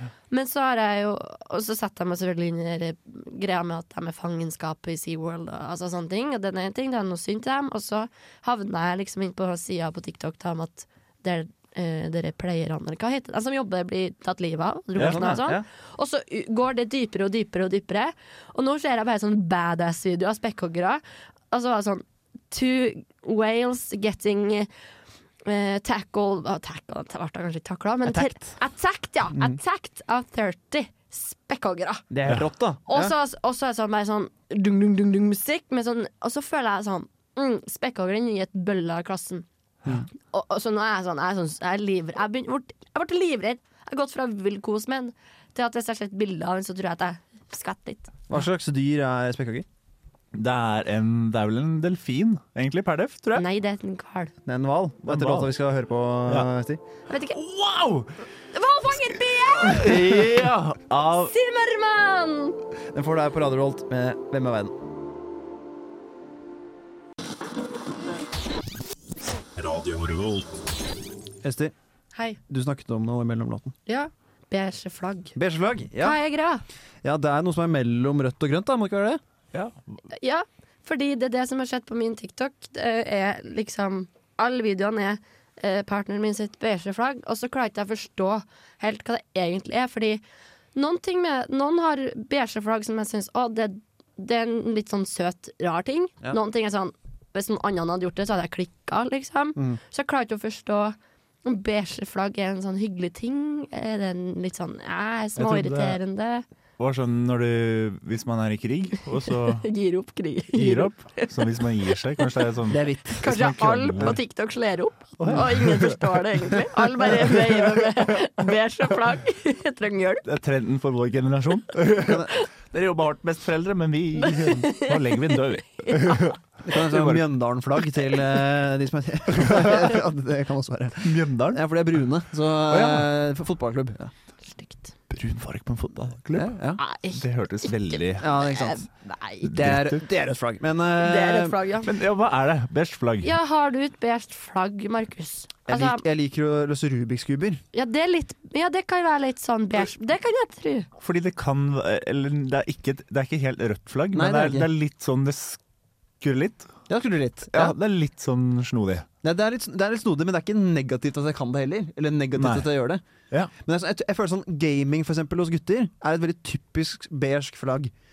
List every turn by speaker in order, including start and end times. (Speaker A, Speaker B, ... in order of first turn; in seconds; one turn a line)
Speaker A: 0.3-24.7
Speaker B: 15.0-15.4
Speaker C: 15.0-15.6
Speaker A: 25.4-32.0
Speaker C: 28.1-28.5
Speaker C: 32.1-33.1
Speaker A: 32.9-39.5
Speaker A: 40.2-48.1
Speaker C: 48.3-49.6
Speaker B: 50.3-53.4
Speaker A: 53.4-54.3
Speaker C: 54.5-56.8
Speaker B: 55.0-55.5
Speaker A: 57.1-57.4
Speaker B: 57.3-58.1
Speaker A: 58.5-60.1
Speaker B: 59.6-61.3
Speaker A: 61.1-62.6
Speaker C: 62.9-64.7
Speaker B: 69.6-70.5
Speaker C: 71.4-71.7
Speaker A: 72.1-72.4
Speaker C: 72.5-73.7
Speaker A: 73.9-75.3
Speaker C: 75.3-76.2
Speaker A: 76.0-76.6
Speaker C: 77.0-79.2
Speaker A: 80.1-90.2
Speaker A: 90.7-106.4
Speaker B: 105.4-106.0
Speaker B: 106.8-109.6
Speaker A: 109.3-111.6
Speaker B: 110.5-114.2
Speaker C: 112.7-113.3
Speaker A: 113.2-120.2
Speaker B: 115.2-116.2
Speaker B: 120.2-127.2
Speaker C: 122.0-122.3
Speaker A: 124.2-126.3
Speaker C: 126.6-134.1
Speaker B: 129.4-129.8
Speaker B: 131.0-131.6
Speaker B: 132.7-133.1
Speaker A: 134.5-134.9
Speaker B: 135.1-136.6
Speaker C: 136.3-136.8
Speaker A: 136.8-139.5
Speaker B: 137.1-138.3
Speaker C: 138.2-138.8
Speaker B: 139.4-140.0
Speaker C: 139.4-141.6
Speaker A: 141.0-141.9
Speaker B: 141.8-143.3
Speaker A: 143.2-146.0
Speaker C: 145.7-147.6
Speaker A: 147.7-150.9
Speaker B: 151.0-155.6
Speaker C: 154.1-154.7
Speaker B: 156.2-156.8
Speaker C: 156.9-157.8
Speaker B: 157.5-159.1
Speaker C: 159.2-163.0
Speaker B: 162.3-162.7
Speaker C: 163.6-167.9